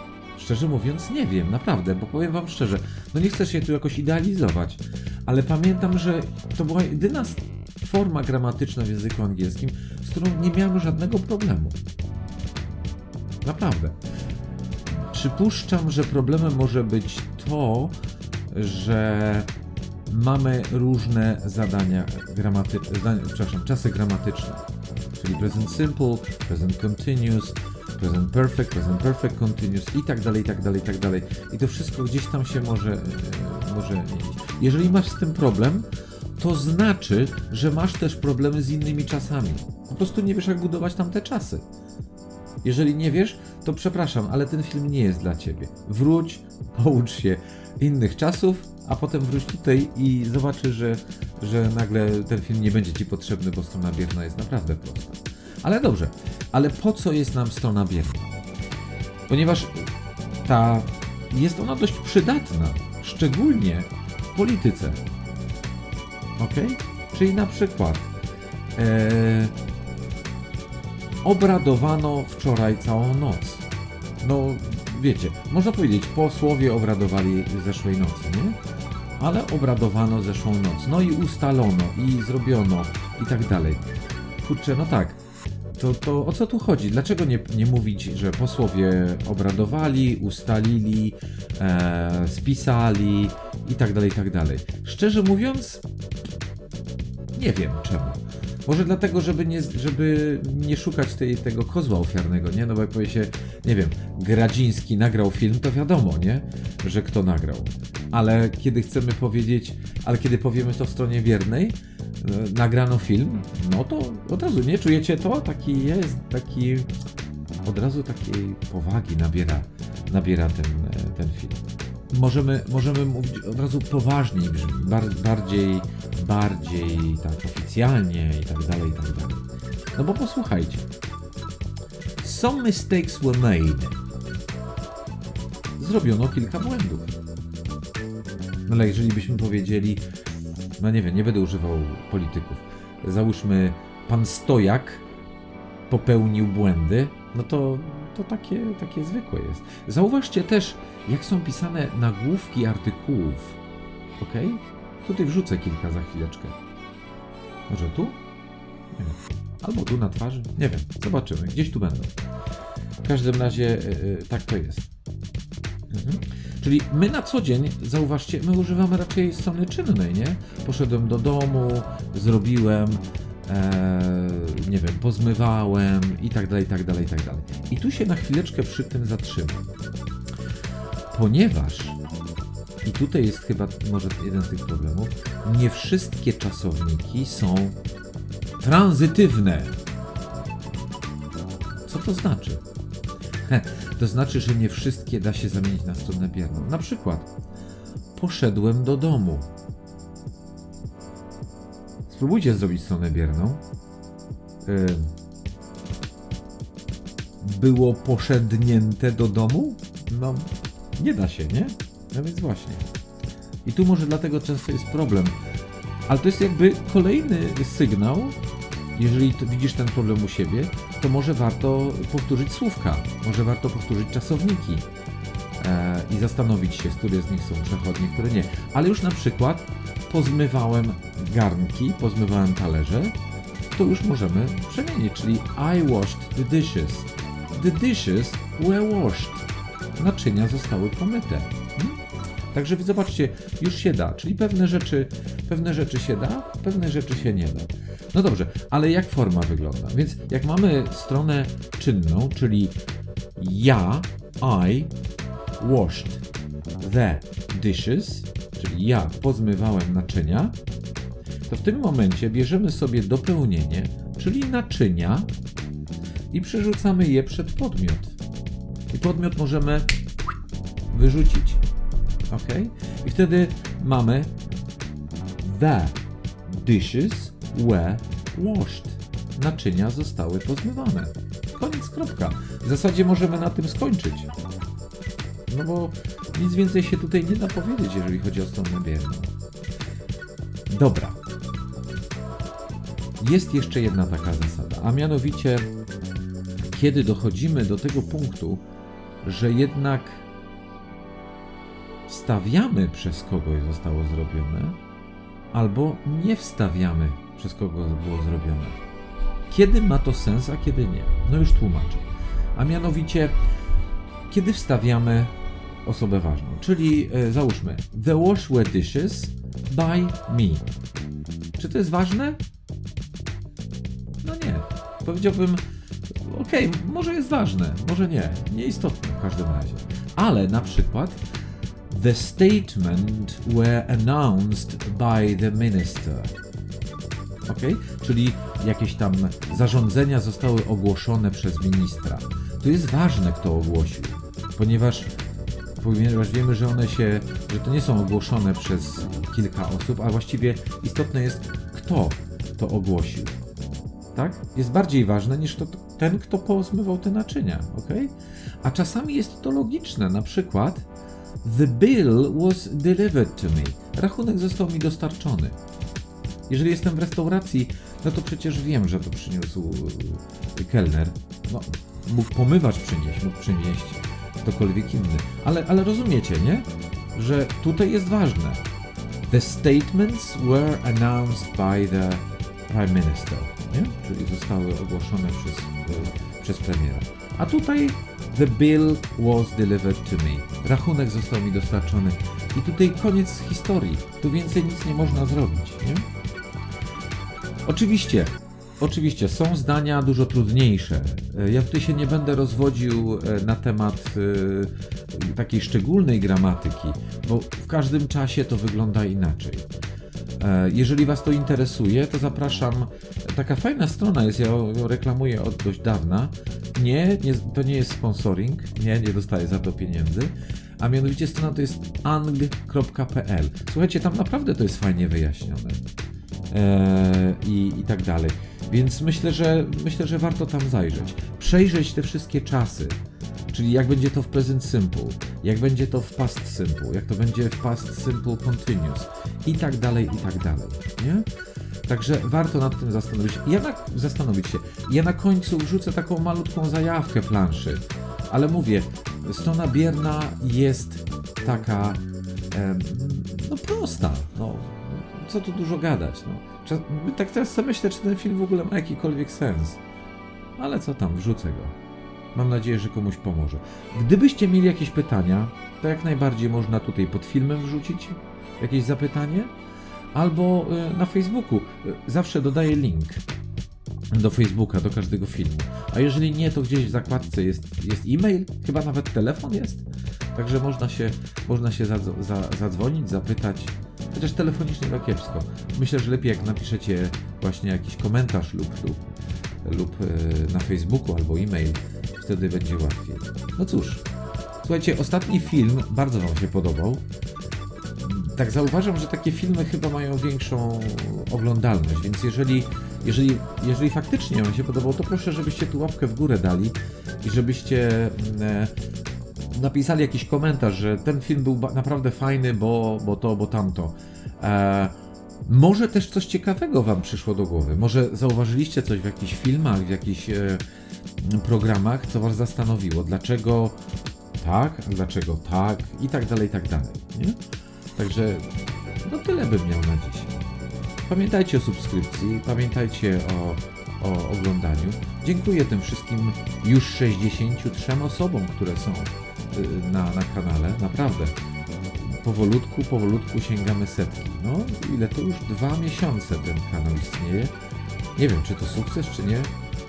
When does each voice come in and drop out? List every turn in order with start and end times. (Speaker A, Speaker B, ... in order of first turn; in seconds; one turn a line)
Speaker A: 0.3-11.8
Speaker A: 13.4-14.0
Speaker A: 15.1-17.9
Speaker A: 18.5-19.5
Speaker A: 20.1-24.6
Speaker A: 25.2-35.9
Speaker A: 36.4-41.6
Speaker A: 42.6-58.4
Speaker A: 59.3-59.9
Speaker A: 60.4-65.0
Speaker A: 66.4-68.1
Speaker A: 68.7-69.5
Speaker A: 71.2-73.6
Speaker A: 74.2-78.6
Speaker A: 79.2-83.8
Speaker A: 84.4-85.2
Speaker A: 85.8-95.8
Speaker A: 97.3-116.9
Speaker A: 117.6-130.9
Speaker A: 132.2-134.0
Speaker A: 135.8-137.1
Speaker A: 138.7-140.0
Speaker A: 140.8-145.0
Speaker A: 145.9-153.6
Speaker A: 154.2-156.6
Speaker A: 157.7-158.2
Speaker A: 158.9-162.1
Speaker A: 163.0-164.9
Speaker A: 165.9-179.7
Speaker A: 181.1-182.0
Speaker A: 182.8-187.8
Speaker A: 188.6-189.7
Speaker A: 191.8-192.6
Speaker A: 193.4-197.3
Speaker A: 198.1-199.5
Speaker A: 202.1-203.6
Speaker A: 204.6-205.1
Speaker A: 207.4-212.8
Speaker A: 213.6-215.3
Speaker A: 216.1-218.4
Speaker A: 218.9-224.8
Speaker A: 225.6-233.1
Speaker A: 233.7-242.0
Speaker A: 242.5-252.8
Speaker A: 253.4-254.9
Speaker A: 255.6-256.2
Speaker A: 256.8-260.5
Speaker A: 261.5-265.3
Speaker A: 266.3-268.1
Speaker A: 268.9-269.9
Speaker A: 270.9-271.6
Speaker A: 272.3-274.3
Speaker A: 275.4-284.3
Speaker A: 285.5-289.3
Speaker A: 290.7-291.2
Speaker A: 293.2-295.7
Speaker A: 296.6-298.6
Speaker A: 299.2-300.2
Speaker A: 302.1-304.8
Speaker A: 305.5-308.8
Speaker A: 309.5-313.4
Speaker A: 314.3-315.3
Speaker A: 315.8-320.7
Speaker A: 321.6-322.4
Speaker A: 324.2-325.6
Speaker A: 326.2-331.2
Speaker A: 331.9-336.3
Speaker A: 337.5-345.1
Speaker A: 345.8-353.4
Speaker A: 354.1-360.9
Speaker A: 361.4-365.6
Speaker A: 366.5-378.6
Speaker A: 379.3-396.1
Speaker A: 397.6-409.7
Speaker A: 410.4-425.8
Speaker A: 426.5-433.0
Speaker A: 433.5-441.2
Speaker A: 441.9-459.8
Speaker A: 460.6-461.7
Speaker A: 462.3-469.5
Speaker A: 470.1-473.2
Speaker A: 474.1-489.0
Speaker A: 489.6-494.0
Speaker A: 494.6-497.0
Speaker A: 498.0-508.7
Speaker A: 509.5-514.9
Speaker A: 515.4-520.6
Speaker A: 521.2-523.8
Speaker A: 524.4-527.4
Speaker A: 528.0-530.3
Speaker A: 531.1-541.4
Speaker A: 542.0-547.5
Speaker A: 548.1-549.5